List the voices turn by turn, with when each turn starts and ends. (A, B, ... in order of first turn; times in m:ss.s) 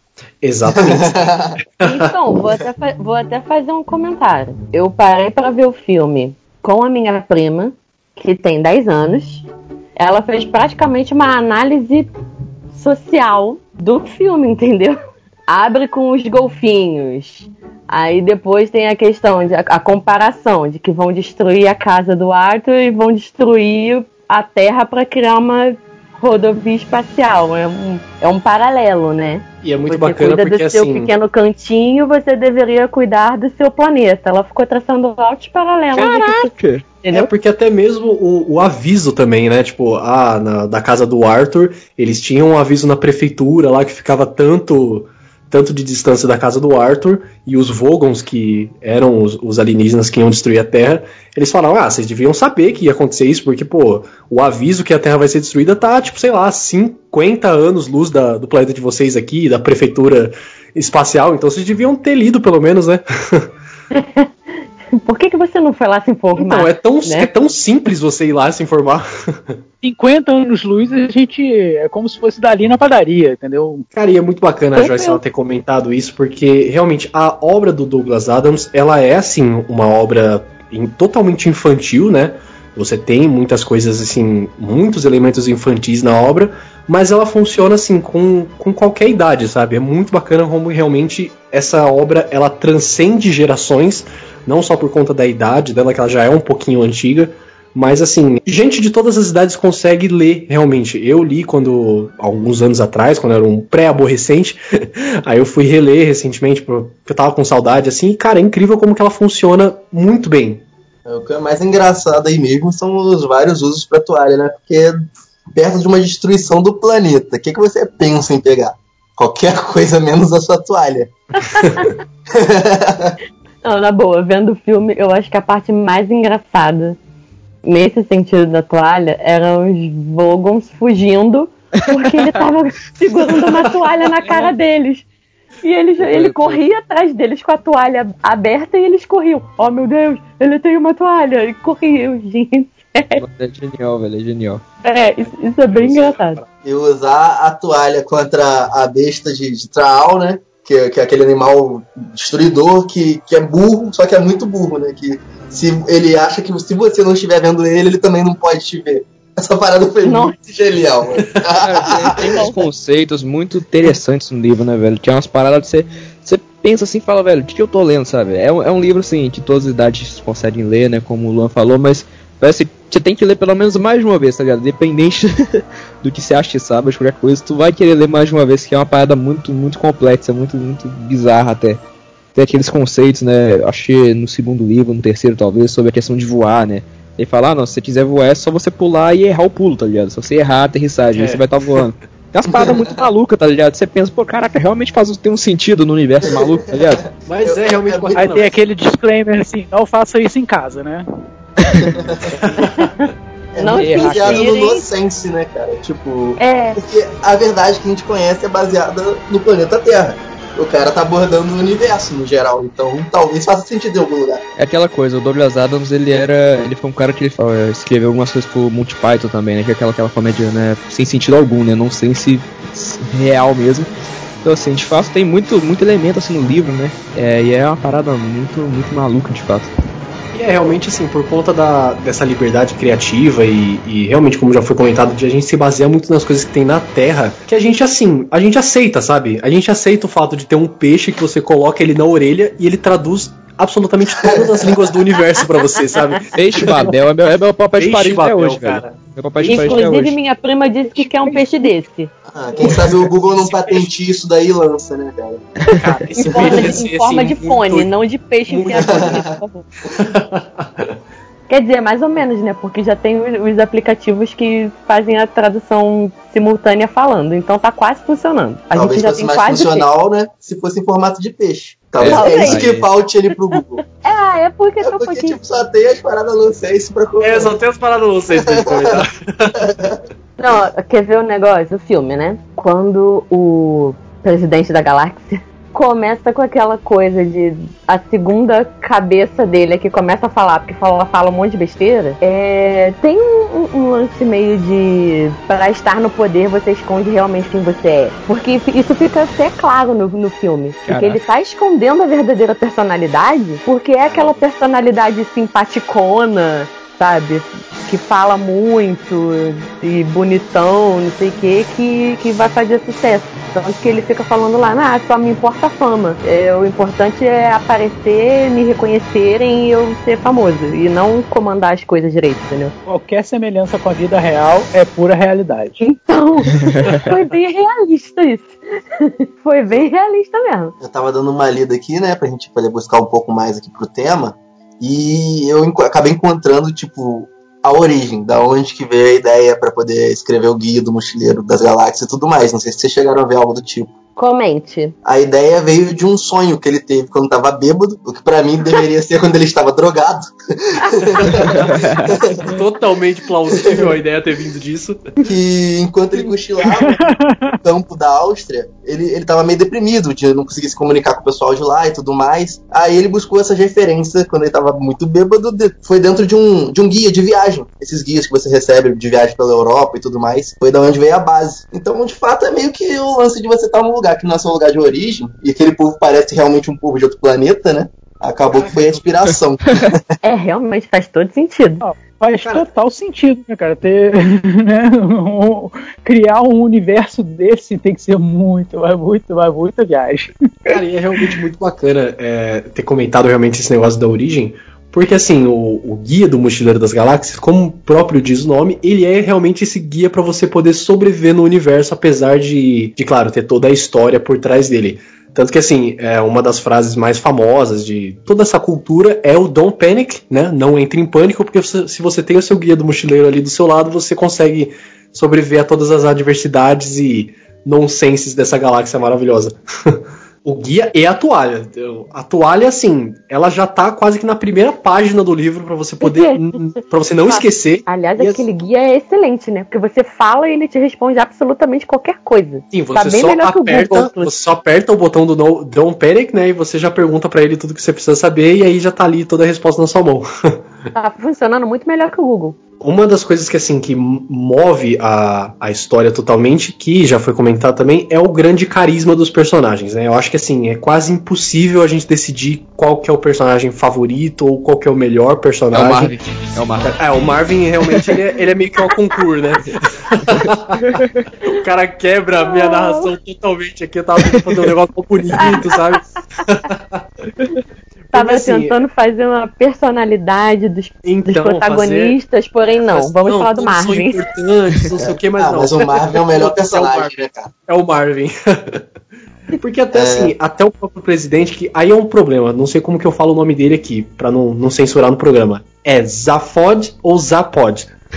0:00.4-0:02.0 A
0:00.7-0:01.6 B
0:01.8-0:09.4 C
0:10.0-0:12.1 C
0:12.7-0:37.3 C
0:29.6-0:31.1 A
0:35.9-0:36.8 D
0:37.1-1:03.5 A
1:03.9-1:04.3 C
1:04.9-1:07.3 C
1:06.3-1:09.6 A
1:09.8-1:13.8 E
1:13.9-1:50.6 A
1:14.7-1:15.2 C
1:51.0-2:01.1 B
2:01.4-2:01.9 C
2:02.3-2:03.2 B
2:03.6-2:07.0 C
2:07.6-2:15.0 C
2:11.8-2:12.4 D
2:15.6-2:23.2 C
2:16.0-2:16.6 D
2:23.2-2:24.6 D
2:24.8-2:26.4 C
2:25.7-2:26.4 A
2:26.6-2:42.5 B
2:40.0-2:40.6 C
2:41.4-3:01.8 D
3:02.3-3:17.1 D
3:11.1-3:11.8 A
3:12.7-3:13.0 B
3:16.3-3:18.3 B
3:17.2-3:18.6 A
3:18.1-3:21.0 E
3:21.6-3:21.9 D
3:21.7-3:22.4 B
3:22.6-3:24.8 C
3:23.5-3:34.4 B
3:23.6-3:24.5 D
3:26.4-3:26.8 C
3:34.6-3:43.9 D
3:44.4-3:49.7 D
3:50.3-4:06.9 A
4:04.2-4:04.8 B
4:06.3-4:10.2 D
4:07.8-4:09.8 A
4:09.4-4:12.1 C
4:12.3-4:15.5 B
4:12.6-4:13.8 A
4:15.7-4:17.9 A
4:16.2-4:19.7 C
4:16.4-4:16.8 B
4:18.5-4:19.2 A
4:18.7-4:19.4 B
4:19.9-4:20.9 A
4:21.5-4:29.9 C
4:28.7-4:33.8 B
4:32.0-4:32.9 D
4:32.0-4:32.6 C
4:34.0-4:35.4 C
4:34.8-4:37.5 B
4:37.2-4:39.7 A
4:38.3-4:39.0 B
4:39.6-4:40.0 B
4:40.4-5:22.7 C
5:00.9-5:01.2 D
5:22.9-5:25.8 E
5:25.8-5:30.7 C
5:26.8-5:27.1 E
5:30.8-5:43.9 B
5:44.2-5:44.9 C
5:45.0-5:52.4 B
5:51.8-5:52.1 D
5:52.4-5:55.1 A
5:53.6-5:53.9 B
5:55.2-5:57.1 B
5:56.6-5:57.6 E
5:57.6-6:20.0 B
6:18.6-6:19.0 A
6:20.2-6:21.8 C
6:21.8-6:30.8 E
6:30.7-7:08.4 A
7:06.0-7:06.6 C
7:07.3-7:14.3 C
7:12.7-7:20.3 A
7:20.9-7:22.6 C
7:22.8-7:36.1 A
7:35.7-7:37.0 D
7:36.8-7:47.0 A
7:37.8-7:38.2 D
7:40.3-7:41.1 D
7:42.4-7:43.1 C
7:45.4-7:45.8 C
7:48.1-7:48.8 A
7:48.1-7:54.2 C
7:51.0-7:52.2 A
7:52.8-7:57.2 A
7:55.4-7:57.5 B
7:57.7-7:58.8 A
7:59.6-8:07.9 A
7:59.9-8:00.3 B